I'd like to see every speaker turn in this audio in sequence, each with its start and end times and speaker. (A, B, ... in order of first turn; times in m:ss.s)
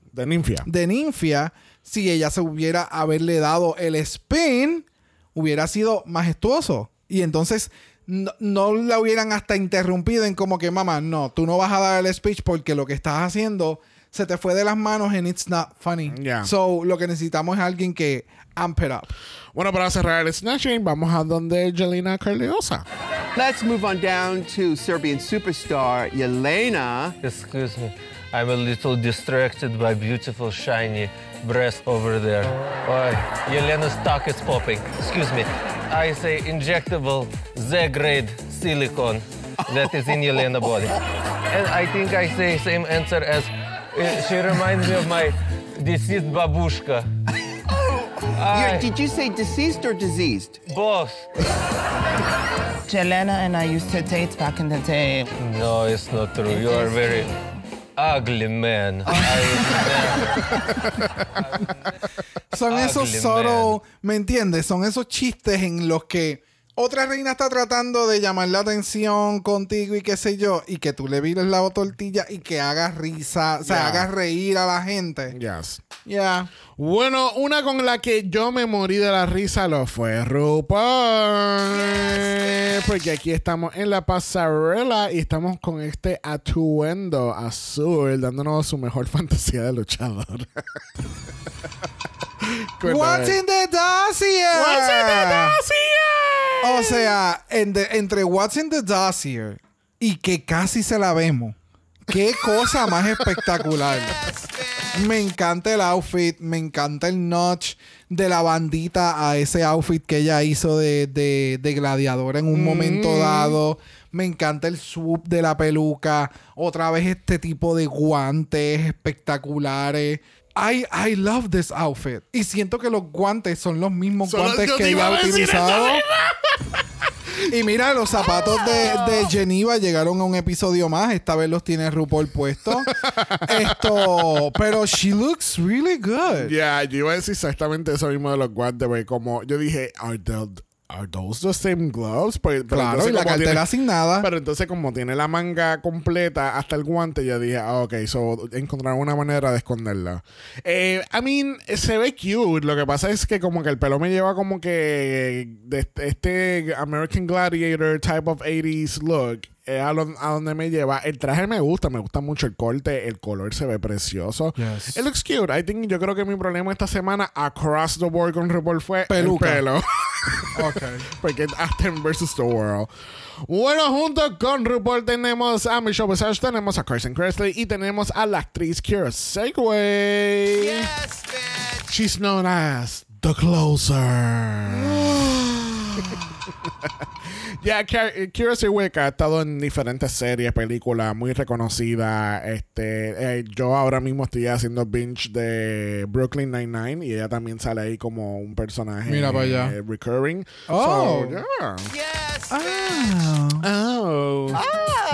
0:00.1-0:00.7 A
0:00.6-0:19.1 B
0:16.1-0:16.5 A
0:19.5-0:22.8 A
0:23.3-0:27.2 C
0:27.2-0:41.0 D
0:41.5-0:47.1 D
0:48.3-0:48.9 D
0:48.5-0:50.6 C
0:50.6-0:51.3 D
0:52.9-0:55.3 E
0:55.4-0:57.3 D
0:58.0-1:00.4 D
1:02.5-1:15.3 B
1:02.7-1:03.8 D
1:13.6-1:14.1 A
1:15.3-1:15.8 A
1:16.0-1:16.5 B
1:16.7-1:30.8 A
1:32.4-1:33.4 A
1:32.8-1:35.6 B
1:34.5-1:37.2 A
1:36.6-1:44.2 B
1:42.9-1:43.3 A
1:44.9-2:06.0 B
1:52.5-1:53.6 A
2:04.2-2:07.0 A
2:07.5-2:12.9 B
2:08.3-2:09.2 A
2:12.9-2:14.5 A
2:13.4-2:16.5 B
2:16.3-2:23.6 A
2:22.7-2:24.3 B
2:24.2-2:52.9 A
2:44.6-2:45.0 B
2:49.1-2:49.6 B
2:50.5-2:51.0 B
2:53.4-3:00.9 A
3:01.9-3:21.9 A
3:19.0-3:19.7 B
3:20.7-3:21.4 B
3:22.5-3:23.6 B
3:23.6-3:24.6 A